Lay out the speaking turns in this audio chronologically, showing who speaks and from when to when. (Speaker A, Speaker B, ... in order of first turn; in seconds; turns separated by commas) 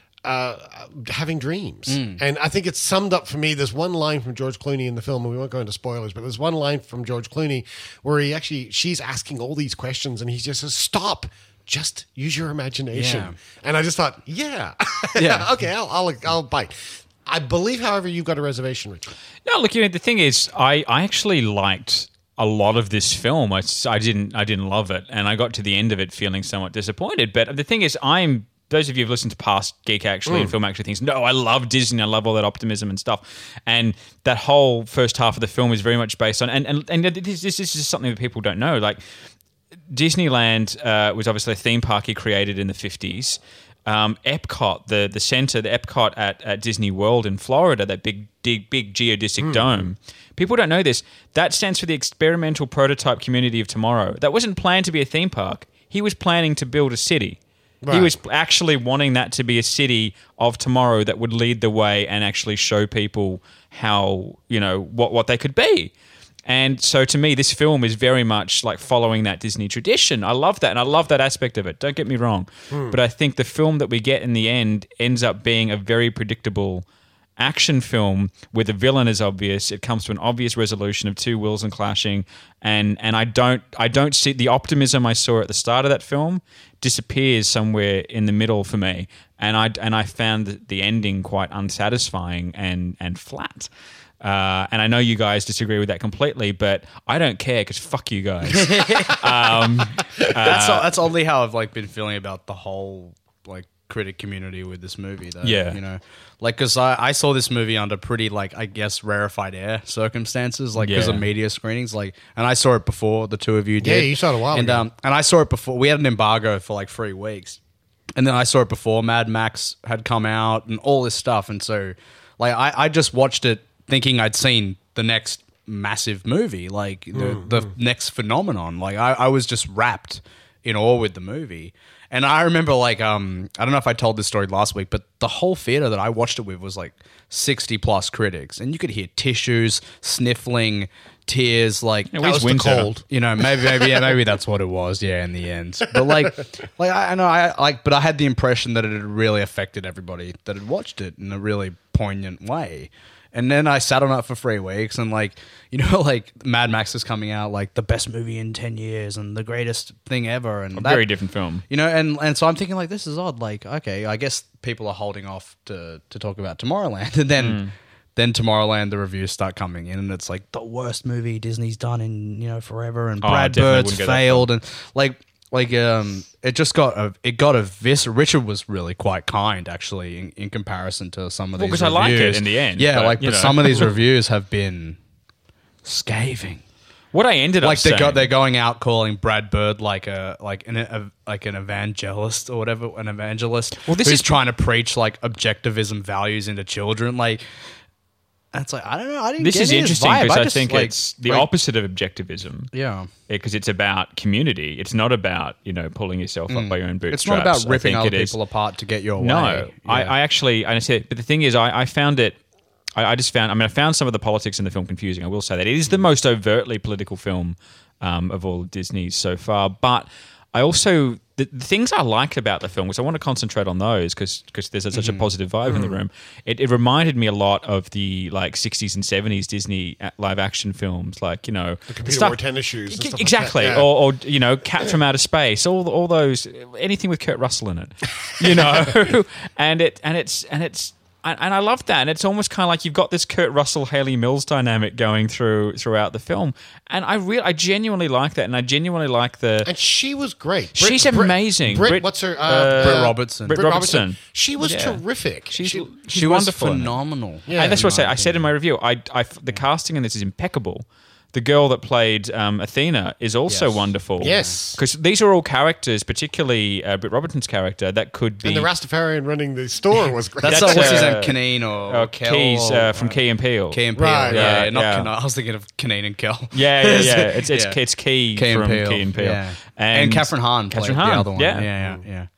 Speaker A: 0.2-19.1, Speaker B: 1.9-2.2, Speaker B: 12.9-13.4, Speaker B: 15.2-15.5, Speaker C: 19.4-39.0, Speaker A: 30.2-30.6, Speaker C: 39.9-57.4, Speaker A: 49.4-49.7, Speaker A: 57.8-58.1, Speaker C: 57.9-65.9, Speaker C: 66.5-76.8, Speaker A: 72.7-73.0, Speaker C: 77.4-93.7, Speaker C: 94.2-100.9, Speaker B: 98.5-99.2, Speaker B: 100.3-117.6, Speaker C: 105.4-105.8, Speaker C: 110.8-111.2, Speaker A: 113.8-114.8, Speaker B: 118.2-142.1, Speaker A: 127.1-127.7, Speaker C: 142.1-142.9, Speaker A: 142.2-143.0, Speaker B: 143.1-161.1, Speaker C: 160.7-161.6, Speaker B: 161.7-167.6, Speaker C: 167.4-167.7, Speaker B: 168.2-185.0, Speaker C: 173.2-174.5, Speaker C: 181.6-183.9, Speaker B: 185.8-186.6, Speaker C: 187.1-188.3, Speaker B: 187.6-197.4, Speaker C: 193.8-194.3, Speaker B: 198.5-201.5, Speaker C: 199.4-202.7, Speaker B: 202.7-203.1, Speaker C: 203.3-208.4, Speaker B: 206.5-210.1, Speaker C: 209.2-212.4, Speaker C: 212.9-249.7, Speaker B: 224.9-225.2, Speaker A: 225.7-226.0, Speaker A: 231.9-233.9, Speaker A: 249.6-255.8, Speaker C: 250.8-257.0, Speaker B: 252.8-253.6, Speaker B: 256.1-258.5, Speaker A: 257.5-257.9, Speaker C: 257.5-268.7, Speaker B: 263.5-264.6, Speaker A: 264.2-264.8, Speaker A: 268.4-271.3, Speaker B: 270.4-273.2, Speaker C: 270.4-275.1, Speaker B: 273.7-277.8, Speaker A: 273.9-274.6, Speaker C: 276.5-281.7, Speaker B: 278.3-282.3